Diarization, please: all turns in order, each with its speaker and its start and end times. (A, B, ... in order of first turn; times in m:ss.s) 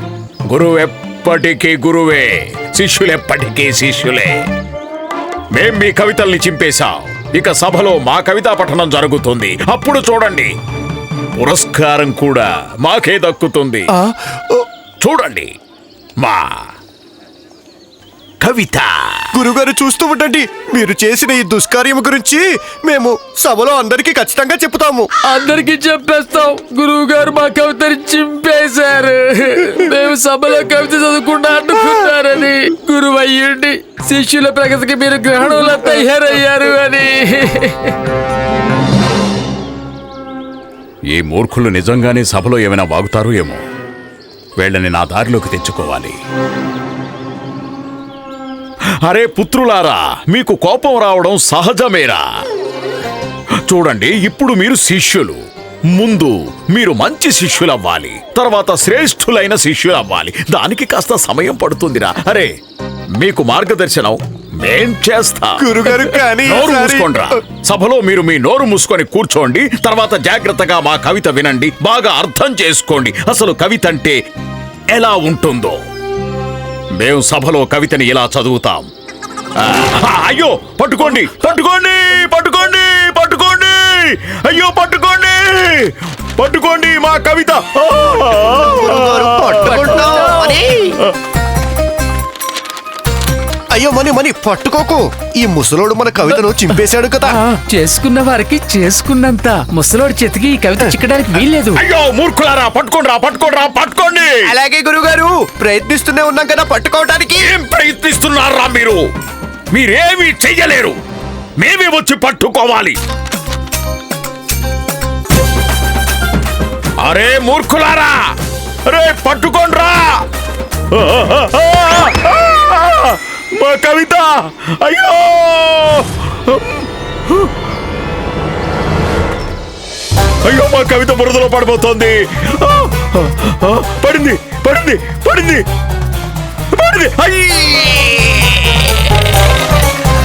0:00.5-0:04.3 A
0:05.6-0:10.5 A
0:11.4-0:13.9 A
0:14.0-0:14.6 B
0:15.0-0:15.5 A
0:18.4-0:19.4 A
0:19.4-0:25.1 B
0:25.3-0:38.0 C
0:41.1-0:43.6 A
0:44.6-0:46.2 A
0:49.1-0:52.2 A
0:53.7-0:55.4 A
0:56.0-1:02.5 A
1:03.2-1:14.2 A
1:05.6-1:06.4 B
1:14.9-1:15.8 A
1:17.0-1:18.9 A
1:19.6-1:30.3 A
1:28.9-1:30.9 B
1:29.6-1:30.6 C
1:33.7-1:37.3 B
1:36.3-1:41.8 C
1:41.7-1:44.6 A
1:44.5-1:47.5 B
1:47.4-1:49.0 A
1:49.7-1:51.0 A
1:51.6-1:53.0 A
1:57.0-1:58.2 A
1:58.9-2:00.2 A
2:00.9-2:07.5 A
2:10.4-2:15.6 A
2:16.7-2:18.9 A